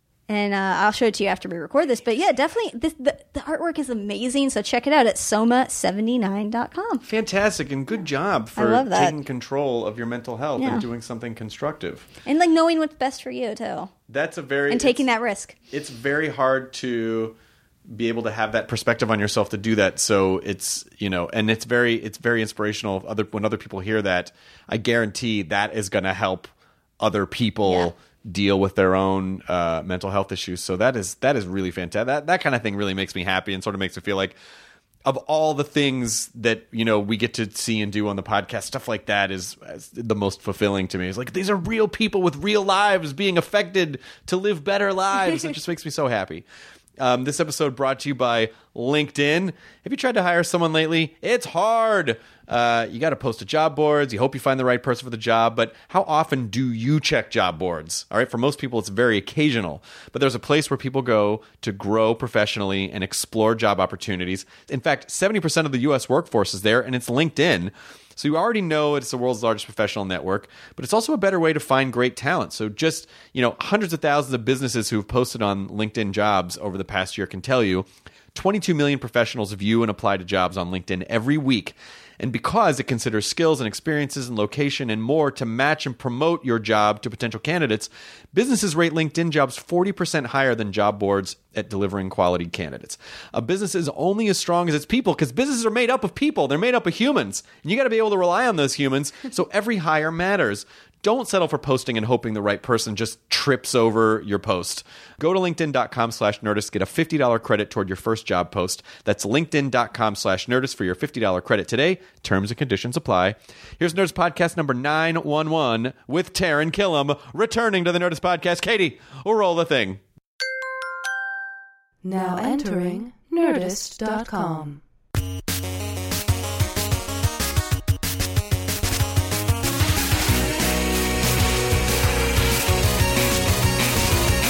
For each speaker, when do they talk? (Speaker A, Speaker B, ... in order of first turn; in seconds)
Speaker A: 0.3-7.0, 8.6-9.2, 10.6-10.8, 12.2-13.9, 14.7-15.6, 27.7-27.9
Speaker B: 7.0-12.1, 14.1-15.1, 15.7-17.4, 17.9-34.4, 35.0-46.5, 47.0-120.0
Speaker C: 122.0-124.8